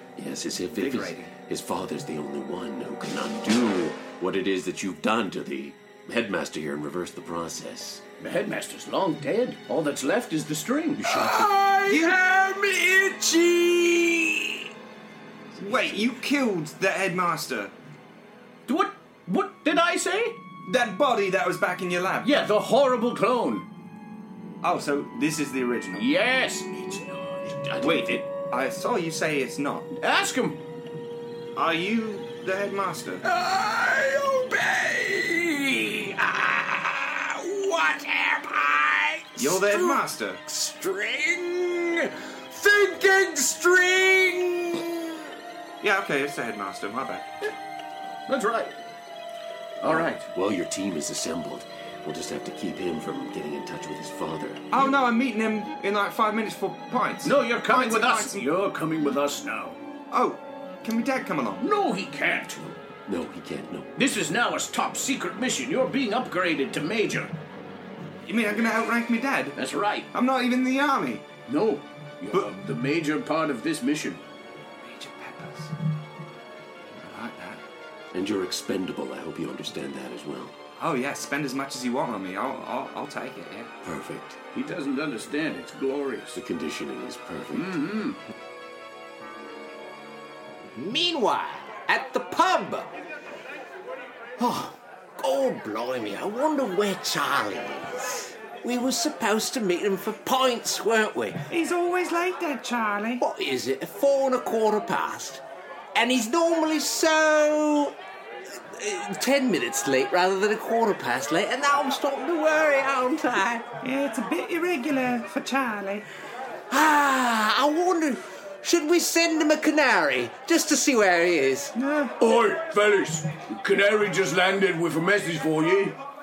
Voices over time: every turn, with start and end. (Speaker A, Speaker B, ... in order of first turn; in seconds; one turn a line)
Speaker A: 0.2-8.0
Speaker B: 0.7-1.3
Speaker C: 8.2-11.1
Speaker A: 11.0-11.5
Speaker D: 11.3-14.4
Speaker B: 11.8-12.2
Speaker B: 15.5-17.7
Speaker C: 18.7-20.4
Speaker B: 20.6-22.3
Speaker C: 22.2-23.6
Speaker B: 24.6-26.1
Speaker C: 26.0-27.4
Speaker A: 27.4-28.2
Speaker B: 27.8-29.9
Speaker C: 30.0-30.6
Speaker B: 31.6-33.2
Speaker D: 33.3-45.1
Speaker B: 39.4-40.4
Speaker B: 45.8-47.3
Speaker C: 48.3-48.7
Speaker C: 49.8-50.3
Speaker A: 50.3-54.8
Speaker B: 54.7-58.5
Speaker C: 57.2-59.8
Speaker B: 60.1-61.7
Speaker C: 61.6-62.8
Speaker A: 63.0-63.9
Speaker C: 64.0-67.3
Speaker B: 68.3-69.6
Speaker C: 69.5-70.1
Speaker B: 70.1-71.2
Speaker C: 71.5-74.2
Speaker B: 74.8-75.7
Speaker B: 76.9-77.6
Speaker A: 78.1-80.5
Speaker B: 80.8-83.7
Speaker A: 83.8-84.4
Speaker C: 84.5-86.4
Speaker A: 86.3-87.8
Speaker C: 87.5-88.2
Speaker D: 90.7-92.9
Speaker D: 94.4-101.5
Speaker B: 101.5-103.2
Speaker D: 103.2-105.4
Speaker D: 105.9-108.0
Speaker D: 108.5-113.7
Speaker B: 113.8-116.0
Speaker D: 116.7-121.7
Speaker B: 121.7-122.1
Speaker C: 122.2-126.0